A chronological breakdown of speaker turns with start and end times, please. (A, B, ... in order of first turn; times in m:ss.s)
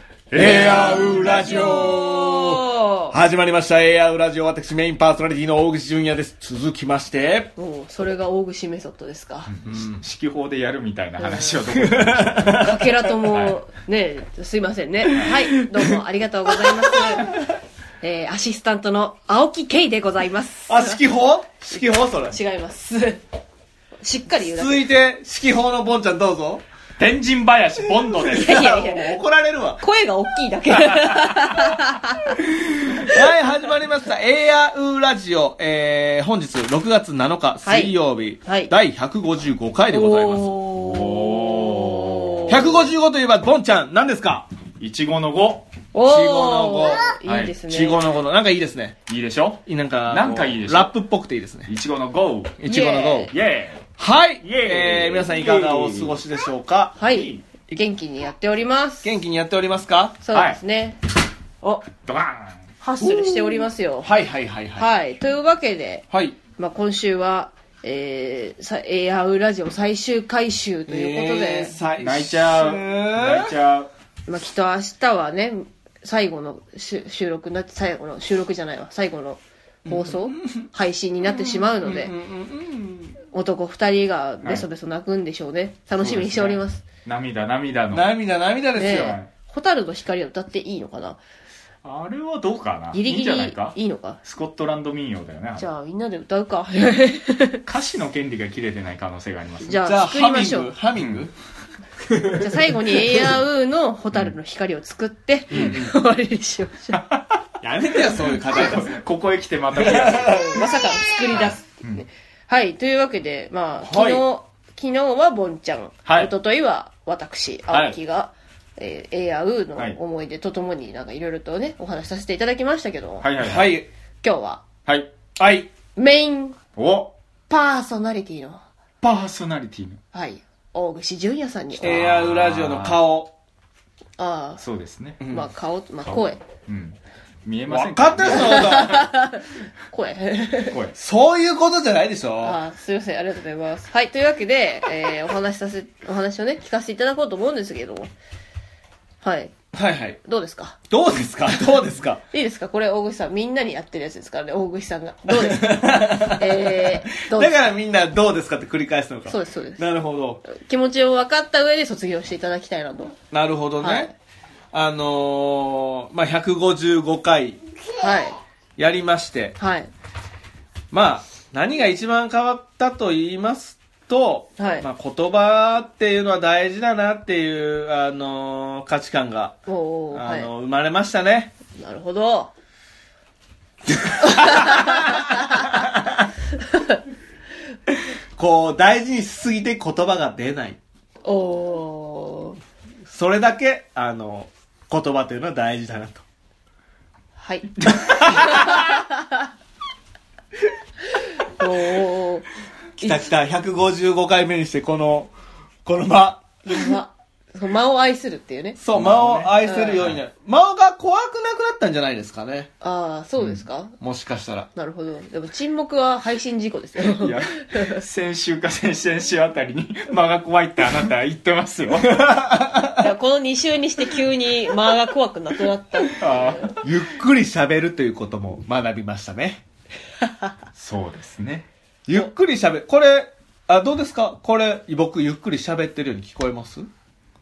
0:00.3-0:01.6 A
0:00.3-0:07.5 B
0:00.4-0:03.2 C
0:07.6-0:09.5 C
0:09.5-0:12.7 A
0:09.6-0:10.0 B
0:11.2-0:11.6 C
0:11.7-0:13.1 B
0:12.5-0:17.3 C
0:13.2-0:13.6 A
0:15.1-0:15.9 B
0:16.6-0:17.2 B
0:18.0-0:21.0 C
0:20.7-0:22.4 B
0:21.7-0:23.2 C
0:24.0-0:24.8 C
0:24.4-0:26.6 B
0:27.0-0:28.7 A
0:28.2-0:29.8 B
0:28.3-0:29.2 C
0:29.8-0:32.4 C
0:32.9-0:33.2 C
0:32.9-0:40.6 B
0:37.6-0:38.7 C
0:39.9-0:42.8 C
0:40.7-0:42.6 A
0:42.5-0:44.5 B
0:44.8-0:45.7 A
0:45.9-0:48.0 C
0:46.0-0:47.1 B
0:47.2-0:47.5 A
0:47.7-0:49.0 B
0:49.1-0:50.9 A
0:49.6-0:51.7 B
0:51.6-0:52.6 A
0:52.6-0:53.3 B
0:52.6-0:53.3 C
0:53.3-0:53.9 A
0:54.0-0:56.9 B
0:54.4-0:56.2 A
0:57.0-0:59.1 C
0:57.1-0:57.4 A
0:59.0-1:00.2 B
1:00.2-1:01.0 C
1:00.3-1:00.6 A
1:01.6-1:01.9 C
1:02.0-1:02.7 A
1:02.8-1:04.1 C
1:03.0-1:04.9 B
1:04.8-1:06.0 C
1:06.1-1:06.4 B
1:06.6-1:11.8 C
1:10.9-1:13.5 B
1:12.0-1:13.9 A
1:14.3-1:22.1 C
1:19.8-1:20.7 B
1:21.2-1:23.2 B
1:23.3-1:26.8 C
1:26.0-1:28.1 A
1:27.9-1:29.2 B
1:28.7-1:31.2 C
1:28.8-1:29.3 A
1:31.8-1:35.7 A
1:32.9-1:34.2 C
1:35.6-1:37.6 C
1:37.6-1:39.8 A
1:39.6-1:40.7 C
1:39.8-1:41.3 B
1:41.0-1:41.2 A
1:42.0-1:43.2 B
1:42.3-1:47.1 C
1:45.5-1:45.9 B
1:45.5-1:45.9 A
1:46.9-1:47.5 A
1:47.6-1:49.0 B
1:48.3-1:50.6 A
1:49.7-1:50.7 B
1:50.3-2:03.3 C
1:51.3-1:52.0 A
1:53.8-1:54.2 B
1:56.0-1:56.3 A
1:57.7-1:58.0 A
2:03.2-2:03.8 A
2:03.4-2:03.9 B
2:04.2-2:04.6 C
2:04.8-2:05.1 A
2:05.4-2:05.7 B
2:06.0-2:06.6 C
2:06.8-2:07.1 A
2:07.5-2:08.6 C
2:09.0-2:10.0 A
2:10.1-2:12.0 C
2:11.8-2:13.3 B
2:11.8-2:13.0 A
2:14.2-2:14.6 C
2:14.6-2:15.2 A
2:15.2-2:15.5 B
2:15.3-2:16.4 C
2:16.0-2:19.0 A
2:17.7-2:19.1 B
2:18.3-2:20.8 C
2:20.7-2:21.0 A
2:21.0-2:22.6 B
2:22.4-2:28.1 C
2:29.2-2:29.5 C
2:29.7-2:30.2 B
2:30.2-2:30.8 C
2:30.9-2:32.2 B
2:32.3-2:37.5 C
2:35.3-2:40.4 B
2:39.3-2:39.8 C
2:40.4-2:43.2 C
2:43.3-2:44.1 B
2:43.8-2:44.1 C
2:44.7-2:47.6 B
2:48.0-2:48.4 C
2:48.8-2:49.6 B
2:49.6-2:49.9 C
2:50.9-2:59.6 B
2:54.6-2:54.8 C
2:59.7-3:00.5 C
3:00.1-3:01.5 B
3:01.7-3:02.5 C
3:04.0-3:06.2 B
3:04.2-3:05.7 C
3:06.6-3:07.0 C
3:08.4-3:10.8 B
3:11.2-3:12.6 C
3:13.0-3:16.2 B
3:17.4-3:19.5 C
3:17.8-3:18.7 A
3:21.2-3:22.5 C
3:23.0-3:25.3 B
3:23.0-3:23.2 C
3:25.8-3:26.9 B
3:26.6-3:28.8 C
3:28.8-3:32.7 B
3:28.9-3:30.2 A
3:29.6-3:30.1 C
3:32.8-3:33.9 C
3:34.0-3:34.7 B
3:34.8-3:38.0 C
3:37.0-3:42.4 A
3:42.0-3:43.0 B
3:43.0-3:46.7 C
3:46.2-3:46.7 A
3:46.7-3:49.6 B
3:50.8-3:51.7 A
3:52.1-3:56.9 B